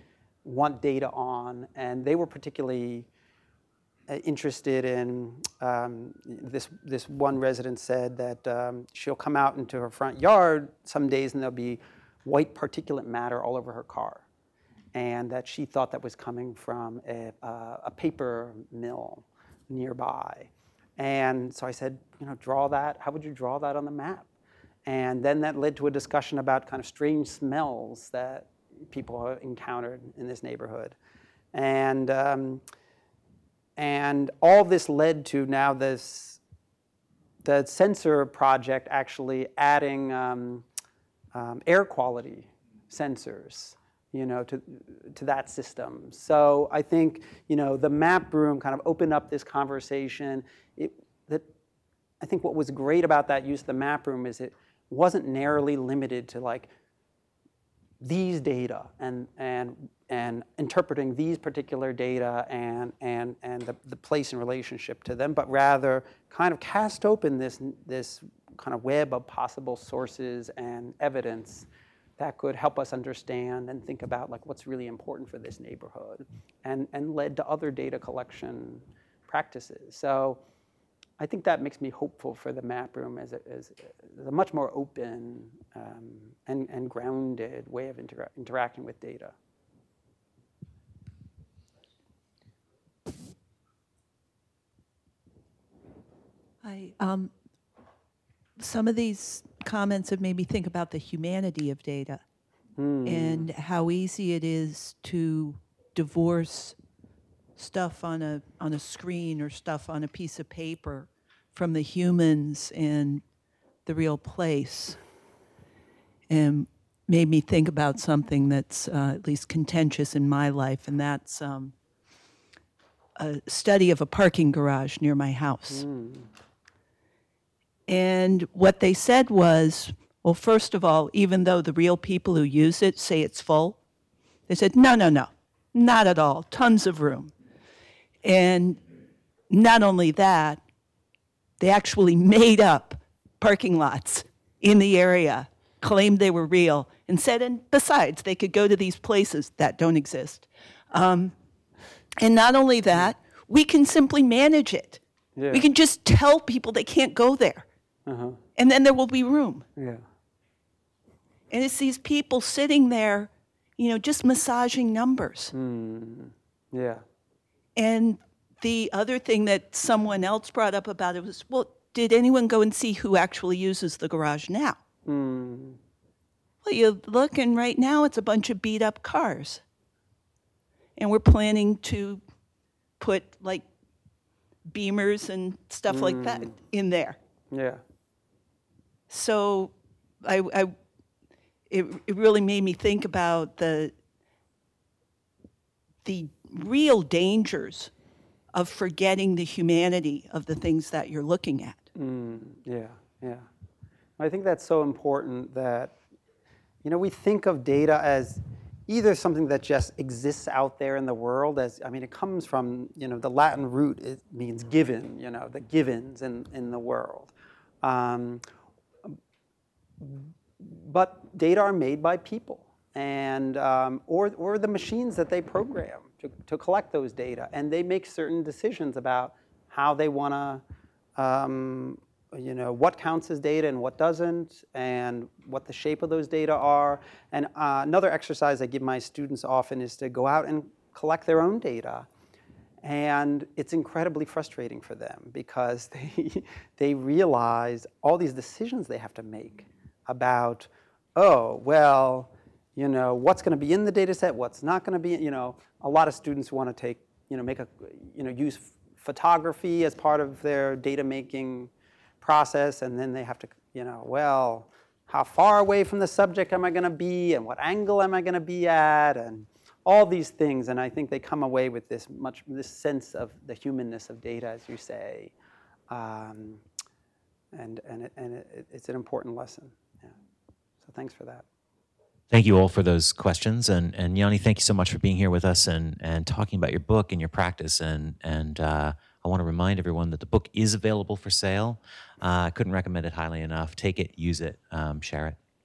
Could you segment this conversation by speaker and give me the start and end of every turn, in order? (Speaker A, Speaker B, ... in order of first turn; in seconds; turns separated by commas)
Speaker A: 0.4-3.1, Speaker A: 4.1-14.2, Speaker A: 14.9-24.3, Speaker A: 24.9-31.0, Speaker A: 31.5-32.6, Speaker A: 33.8-36.4, Speaker A: 37.4-40.7, Speaker A: 41.3-51.5, Speaker A: 52.2-56.7, Speaker A: 58.0-80.4, Speaker A: 81.2-89.3, Speaker B: 96.6-97.3, Speaker B: 98.6-102.2, Speaker A: 102.8-103.5, Speaker B: 103.0-106.8, Speaker B: 107.6-113.2, Speaker B: 113.9-115.0, Speaker B: 116.3-121.7, Speaker B: 123.2-125.8, Speaker A: 125.7-126.3, Speaker B: 127.9-133.8, Speaker B: 134.5-137.3, Speaker B: 138.2-138.8, Speaker B: 139.5-140.6, Speaker B: 141.6-151.3, Speaker B: 152.2-157.7, Speaker A: 155.4-155.7, Speaker A: 158.1-158.4, Speaker B: 158.6-159.7, Speaker A: 159.8-160.1, Speaker B: 161.5-165.5, Speaker A: 165.5-167.0, Speaker B: 167.8-174.8, Speaker A: 175.1-175.8, Speaker B: 176.6-179.6, Speaker B: 181.0-182.2, Speaker B: 183.0-183.7, Speaker B: 184.7-187.2, Speaker A: 185.9-186.5, Speaker A: 187.5-187.8, Speaker B: 189.1-189.7, Speaker B: 190.2-190.8, Speaker B: 191.7-193.9, Speaker B: 196.0-197.9, Speaker B: 198.5-201.9, Speaker A: 201.9-203.5, Speaker A: 204.2-206.0, Speaker A: 206.8-218.4, Speaker A: 220.0-230.6, Speaker A: 231.2-242.1, Speaker A: 242.8-275.3, Speaker A: 275.9-276.6, Speaker A: 277.5-280.1, Speaker A: 280.8-281.4, Speaker C: 282.3-295.4